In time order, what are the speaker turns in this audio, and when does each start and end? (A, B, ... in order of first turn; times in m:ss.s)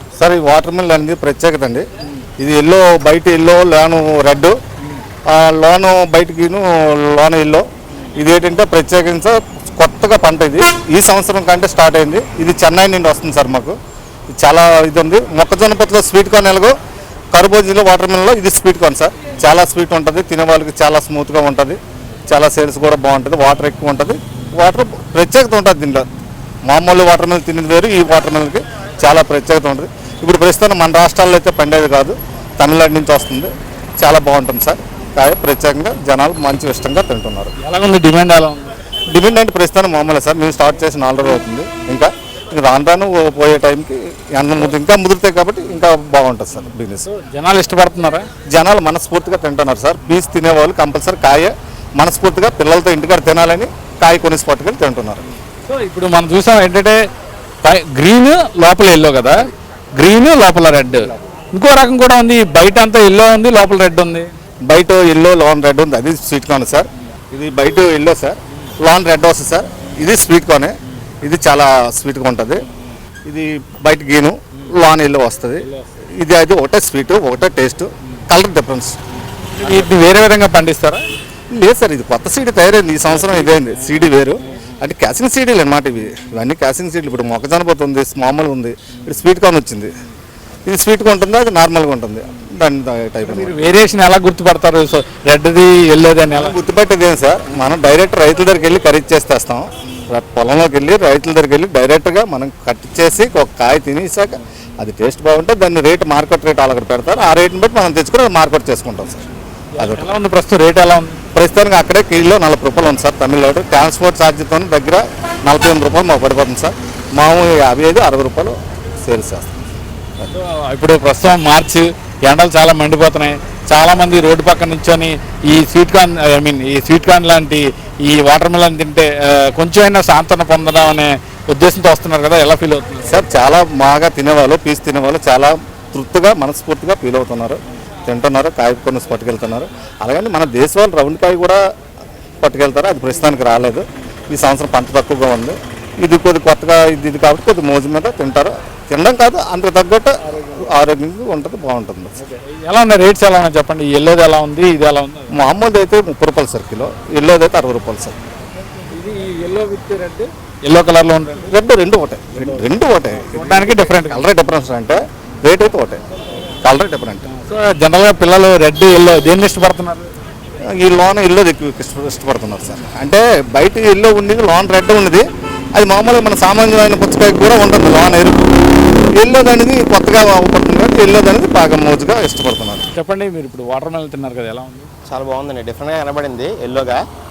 0:00.2-0:01.8 A
0:02.4-0:04.6 A
0:05.3-0:13.8 A
0:14.3-0:16.8 A
0:17.3-0:26.1 A
0:26.7-0:37.5 A
0:37.6-0:38.7 B
0:39.1-0:47.1 A
0:47.1-0:48.3 B
0:48.5-0:55.2 A
0:55.6-0:57.0 B
0:57.6-0:59.4 B
1:00.0-1:04.3 B
1:04.7-1:12.7 A
1:13.3-1:19.0 A
1:19.6-1:21.0 B
1:21.5-1:29.9 A
1:23.2-1:23.8 B
1:30.7-1:33.6 A
1:33.2-1:36.6 B
1:36.3-1:49.3 A
1:49.8-1:51.3 B
1:49.8-1:50.1 A
1:51.3-1:59.5 A
2:00.4-2:13.1 B
2:13.1-2:21.6 A
2:22.4-2:32.2 A
2:32.2-2:35.4 B
2:35.3-2:38.2 A
2:38.9-2:41.5 B
2:41.5-2:46.0 A
2:42.4-2:42.6 B
2:43.3-2:44.2 B
2:46.6-2:47.3 A
2:47.3-2:50.1 B
2:50.8-2:58.6 A
2:59.2-3:02.8 A
3:02.9-3:04.9 B
3:05.1-3:07.0 C